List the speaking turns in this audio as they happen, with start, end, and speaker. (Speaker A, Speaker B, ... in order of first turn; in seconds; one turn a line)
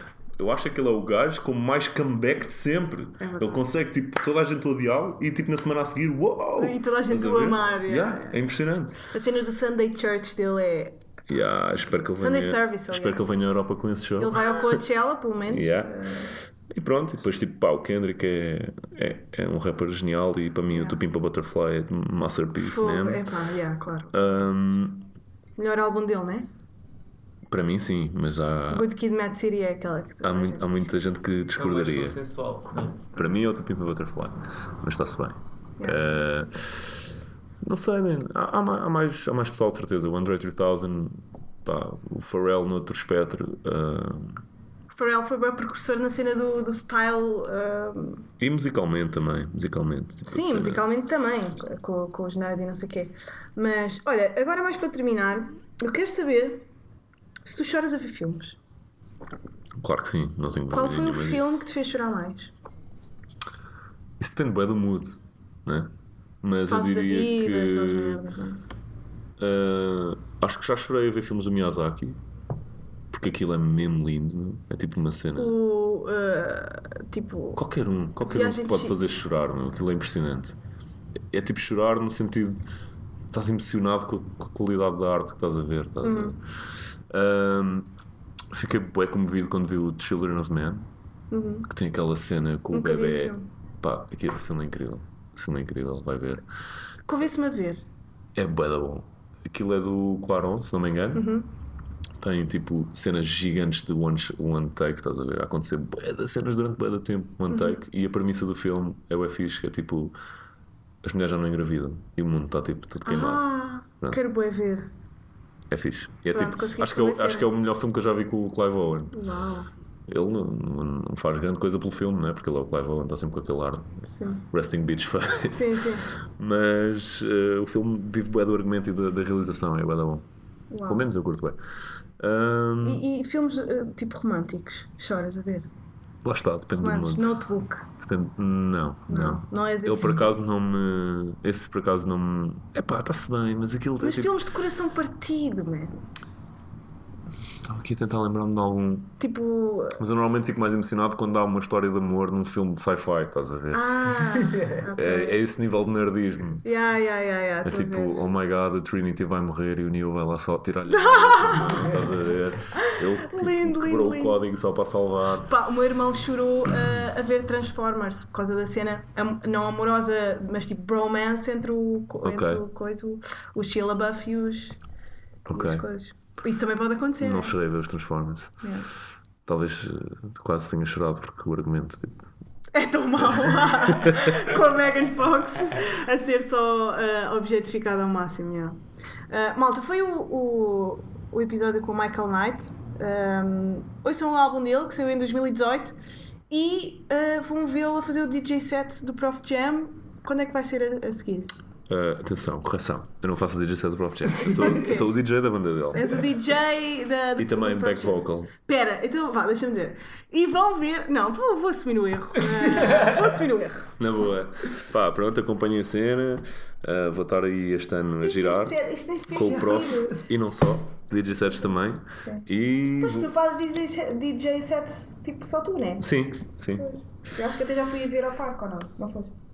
Speaker A: 0.4-9.0
Speaker B: 3.2-3.6
Speaker B: 6.6-8.4
Speaker B: 9.1-11.0
Speaker A: 11.3-14.8
Speaker B: 12.2-13.2
Speaker B: 14.2-16.3
Speaker A: 15.5-16.1
Speaker A: 16.7-23.3
Speaker B: 20.7-21.0
Speaker B: 22.6-24.1
Speaker A: 24.1-25.1
Speaker B: 25.6-26.5
Speaker A: 27.5-28.9
Speaker B: 28.7-30.9
Speaker A: 30.2-32.2
Speaker C: 31.6-33.1
Speaker A: 33.1-44.4
Speaker B: 44.9-48.3
Speaker A: 48.4-50.8
Speaker B: 50.3-56.6
Speaker B: 57.4-58.6
Speaker A: 59.8-61.6
Speaker B: 60.7-62.5
Speaker A: 64.2-65.9
Speaker A: 66.4-68.2
Speaker B: 66.7-68.6
Speaker A: 69.4-72.2
Speaker A: 73.1-75.5
Speaker B: 75.4-77.6
Speaker A: 77.5-80.6
Speaker B: 78.2-79.0
Speaker A: 81.3-82.6
Speaker A: 83.3-86.4
Speaker B: 86.0-86.3
Speaker A: 87.1-87.9
Speaker A: 88.5-90.8
Speaker B: 91.3-91.7
Speaker A: 91.7-96.4
Speaker B: 92.7-93.4
Speaker B: 97.0-97.8
Speaker A: 98.3-101.3
Speaker B: 101.1-101.5
Speaker A: 102.2-110.1
Speaker B: 107.5-107.8
Speaker A: 111.0-113.5
Speaker B: 113.0-114.9
Speaker A: 115.7-119.1
Speaker B: 116.3-117.5
Speaker B: 119.1-119.7
Speaker A: 120.1-130.2
Speaker B: 124.0-124.5
Speaker B: 125.5-126.1
Speaker B: 130.7-131.1
Speaker A: 130.9-131.6
Speaker A: 132.2-133.0
Speaker B: 132.8-135.7
Speaker A: 136.2-144.3
Speaker B: 136.8-137.9
Speaker B: 139.1-140.4
Speaker B: 144.0-146.0
Speaker A: 147.6-149.1
Speaker B: 149.2-150.0
Speaker A: 150.0-153.9
Speaker B: 153.7-155.4
Speaker C: 154.4-154.7
Speaker A: 154.9-156.7
Speaker B: 156.6-158.2
Speaker A: 157.6-165.5
Speaker B: 160.9-161.9
Speaker B: 162.8-164.3
Speaker B: 165.5-174.8
Speaker A: 172.2-172.6
Speaker A: 175.4-175.9
Speaker B: 175.5-177.6
Speaker A: 177.2-178.6
Speaker A: 179.4-182.3
Speaker B: 182.7-188.8
Speaker A: 183.3-184.5
Speaker B: 189.3-195.9
Speaker B: 196.5-201.5
Speaker A: 201.9-206.2
Speaker B: 204.5-205.1
Speaker B: 205.9-213.9
Speaker A: 207.4-208.5
Speaker C: 212.7-213.2
Speaker A: 214.0-223.3
Speaker B: 218.2-220.2
Speaker C: 219.4-219.9
Speaker B: 223.0-226.1
Speaker A: 226.0-226.9
Speaker B: 226.8-229.4